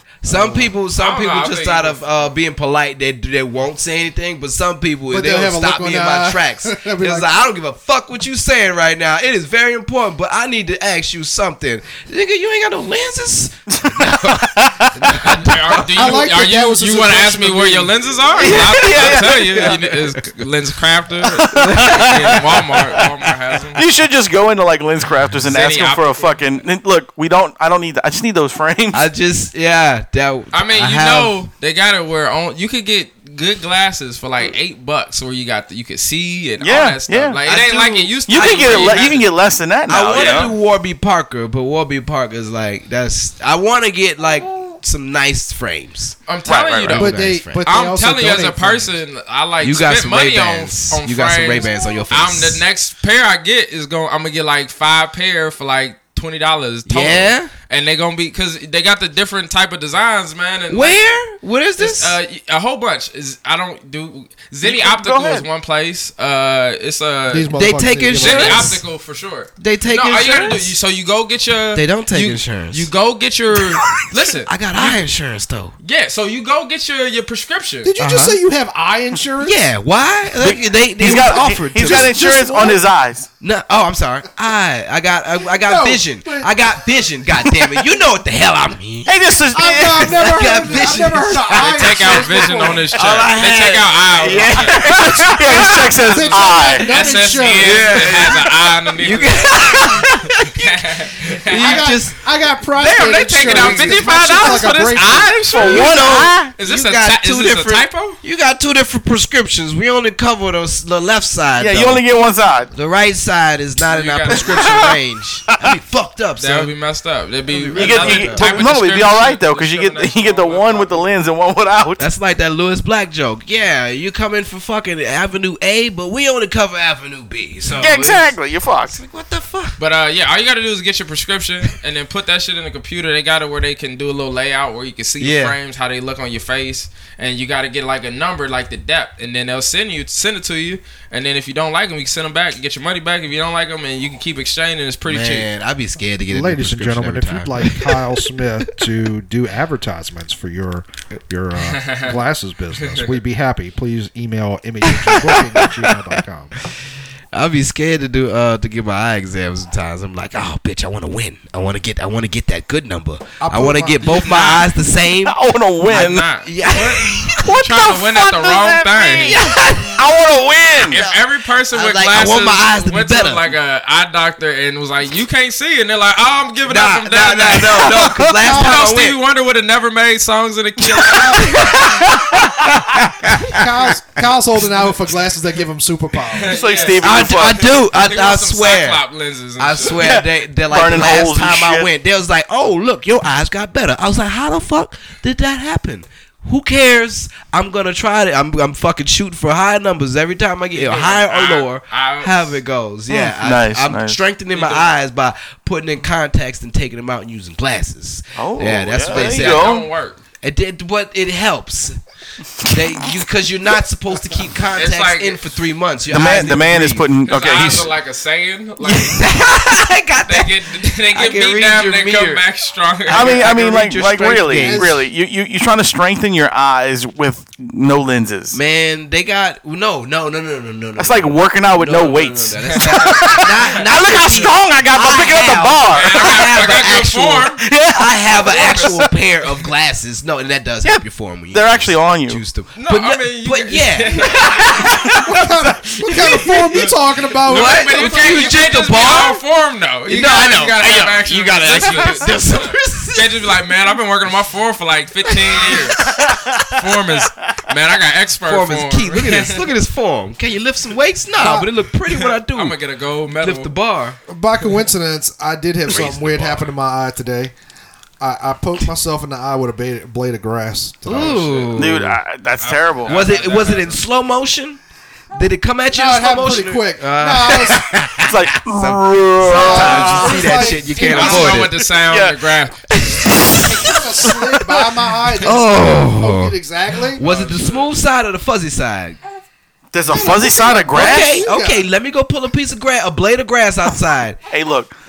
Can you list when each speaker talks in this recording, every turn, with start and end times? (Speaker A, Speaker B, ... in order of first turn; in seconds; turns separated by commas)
Speaker A: 0.2-15.8, Speaker B: 0.3-0.7, Speaker C: 0.9-2.3, Speaker B: 5.1-7.3, Speaker D: 13.7-15.3, Speaker C: 15.2-23.8, Speaker B: 15.8-18.6, Speaker A: 18.4-20.1, Speaker D: 18.5-19.7, Speaker D: 21.2-22.4, Speaker A: 21.5-22.7, Speaker D: 23.7-29.0, Speaker C: 25.5-26.4, Speaker A: 28.9-31.4, Speaker C: 30.5-39.2, Speaker D: 36.6-37.4, Speaker A: 37.4-39.2, Speaker D: 38.3-40.5, Speaker A: 39.9-46.1, Speaker C: 40.1-40.5, Speaker C: 46.3-61.0, Speaker D: 46.5-47.0, Speaker A: 46.9-47.6, Speaker B: 46.9-48.9, Speaker A: 49.6-52.6, Speaker A: 56.9-57.5, Speaker A: 60.7-62.2, Speaker C: 61.8-67.6, Speaker D: 64.6-65.5, Speaker B: 67.3-68.8, Speaker A: 67.5-68.8, Speaker C: 68.1-75.0, Speaker A: 69.6-70.7, Speaker A: 71.7-72.9, Speaker A: 74.0-75.7, Speaker C: 75.8-77.9, Speaker B: 77.8-79.6, Speaker A: 78.0-78.4, Speaker A: 79.4-82.1, Speaker D: 80.4-83.3, Speaker B: 81.1-82.8, Speaker A: 83.4-89.1, Speaker B: 85.5-86.8, Speaker B: 87.4-87.7, Speaker D: 89.0-90.6, Speaker B: 89.5-92.8, Speaker A: 90.0-96.5, Speaker C: 91.6-94.9, Speaker D: 94.2-96.9, Speaker B: 94.9-98.4, Speaker C: 96.3-101.9, Speaker A: 97.5-102.2, Speaker D: 99.6-100.2, Speaker B: 101.5-105.4, Speaker C: 102.8-108.2, Speaker A: 103.4-104.1, Speaker D: 105.5-106.5, Speaker A: 105.6-112.0, Speaker D: 111.5-112.7, Speaker A: 112.7-116.7, Speaker C: 113.9-114.9, Speaker D: 114.3-115.0, Speaker D: 115.5-115.8, Speaker C: 116.4-121.2, Speaker A: 117.5-118.5, Speaker D: 117.7-122.1, Speaker A: 122.0-128.3, Speaker D: 127.8-129.0, Speaker A: 128.9-129.8, Speaker C: 129.8-145.5, Speaker A: 135.2-135.5, Speaker A: 145.1-148.0, Speaker B: 146.3-156.6, Speaker C: 151.6-152.1, Speaker C: 152.8-153.1, Speaker A: 155.0-155.8, Speaker A: 157.3-165.3, Speaker B: 163.4-164.0, Speaker C: 164.0-164.7, Speaker D: 165.2-166.3, Speaker C: 165.8-169.4, Speaker A: 166.4-167.3, Speaker D: 167.3-171.0, Speaker A: 169.2-170.1, Speaker A: 170.9-173.5, Speaker C: 170.9-181.8, Speaker A: 176.7-179.2, Speaker B: 178.4-178.7, Speaker A: 181.1-182.4, Speaker D: 181.8-182.7, Speaker A: 183.2-183.6, Speaker B: 183.4-186.6, Speaker C: 186.3-190.1, Speaker D: 186.5-187.6, Speaker A: 187.0-189.0, Speaker A: 189.6-209.7, Speaker D: 189.9-191.9, Speaker C: 200.7-202.6, Speaker D: 203.1-204.2, Speaker C: 204.5-204.9, Speaker D: 208.3-209.9, Speaker C: 209.1-210.2, Speaker A: 210.4-212.0, Speaker D: 212.6-213.2, Speaker A: 212.6-217.1, Speaker C: 214.7-215.5, Speaker D: 216.1-217.9, Speaker C: 217.3-219.4, Speaker A: 218.8-222.4, Speaker C: 220.2-223.5, Speaker A: 223.1-224.9, Speaker D: 223.1-228.6, Speaker B: 224.6-225.0, Speaker A: 228.5-245.1, Speaker D: 231.0-236.4, Speaker C: 232.7-233.2, Speaker C: 235.9-237.6, Speaker D: 237.6-239.1, Speaker C: 238.3-239.5, Speaker D: 240.8-242.4, Speaker C: 242.8-245.0, Speaker B: 245.1-248.8, Speaker A: 246.1-246.5, Speaker C: 246.1-256.1, Speaker A: 247.4-249.4, Speaker A: 250.1-253.5, Speaker D: 251.8-252.1, Speaker A: 255.3-256.1, Speaker D: 255.8-256.8, Speaker C: 256.7-259.7, Speaker A: 258.4-262.8, Speaker B: 261.4-261.7, Speaker C: 262.1-263.7, Speaker A: 263.4-264.2, Speaker B: 264.3-267.5, Speaker D: 265.9-266.1, Speaker A: 265.9-266.6, Speaker B: 268.2-271.5, Speaker A: 271.1-272.2, Speaker C: 271.2-271.7, Speaker D: 271.7-273.2, Speaker C: 272.6-274.0, Speaker A: 273.1-274.8, Speaker A: 275.3-281.7, Speaker B: 275.9-278.0, Speaker D: 278.2-280.8, Speaker B: 279.4-281.6, Speaker C: 281.0-283.0, Speaker D: 281.4-282.5, Speaker A: 282.9-284.3, Speaker B: 283.6-287.2, Speaker A: 285.4-286.6, Speaker A: 287.1-289.2, Speaker C: 287.2-288.0, Speaker D: 289.9-291.5, Speaker B: 290.1-291.8, Speaker A: 290.9-294.4, Speaker D: 294.5-294.9